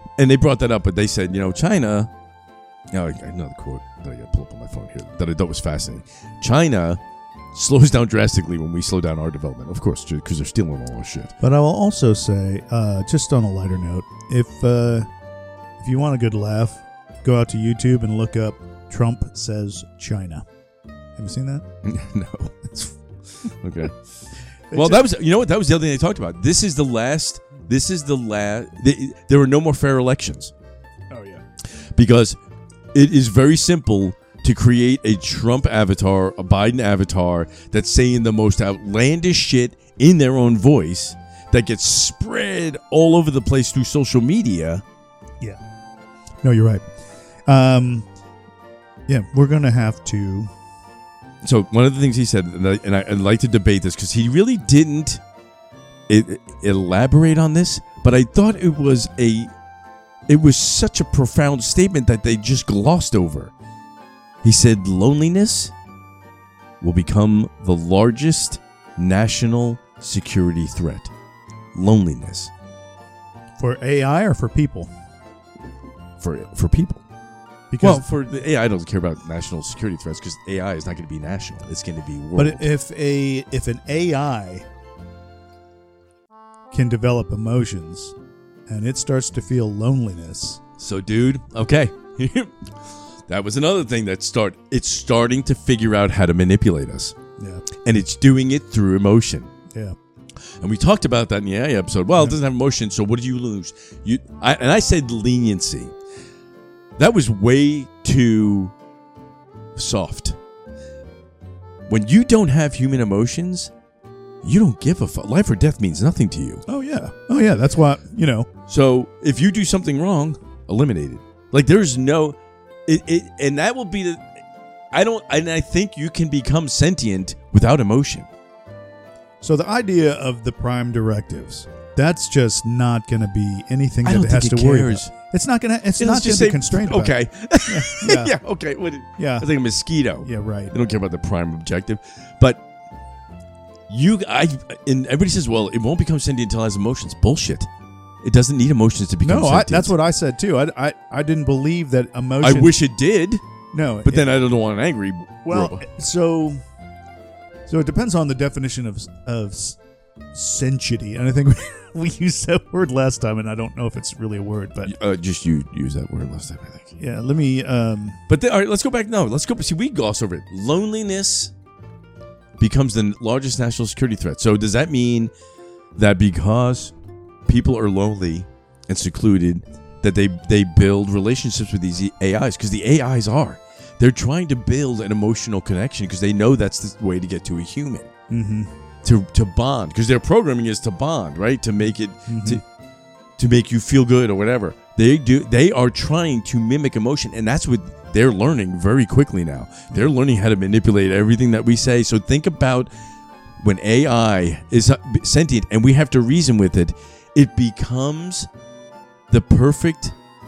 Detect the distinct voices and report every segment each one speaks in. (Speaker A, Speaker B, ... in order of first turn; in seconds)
Speaker A: 0.2-2.1, 2.9-7.0, 7.5-11.3, 21.8-24.0, 24.7-30.5, 31.9-32.4, 32.9-44.8, 51.4-55.2, 56.1-59.5, 60.3-63.5, 64.4-65.7, 66.8-71.1, 71.7-72.5, 76.2-77.0, 77.8-82.7, 90.8-92.7, 93.3-97.2, 97.8-99.5, 100.6-105.9, 107.0-108.7, 109.8-110.4, 111.9-113.7, 114.4-116.6, 118.7-124.3, 124.9-128.3, 134.0-135.1, 136.0-142.6, 143.9-147.7, 148.2-149.9, 152.4-153.4, 154.0-155.8, 164.8-167.0, 168.3-171.5, 172.6-175.3, 175.9-176.9, 177.4-188.1, 189.0-192.6, 193.4-202.9, 203.6-208.5, 209.3-210.1
Speaker B: 11.4-15.1, 15.8-20.4, 21.2-21.6, 24.7-25.1, 31.1-31.4, 46.4-46.9, 47.5-48.1, 49.1-50.5, 73.6-74.9, 77.7-78.0, 82.3-84.7, 86.7-88.1, 88.7-90.6, 97.4-97.6, 116.7-118.5, 129.4-138.3, 139.2-139.5, 140.2-140.7, 149.2-152.8, 153.7-154.3, 155.4-156.6, 157.7-159.8, 160.3-164.9, 167.0-168.2, 188.3-188.7, 192.3-192.6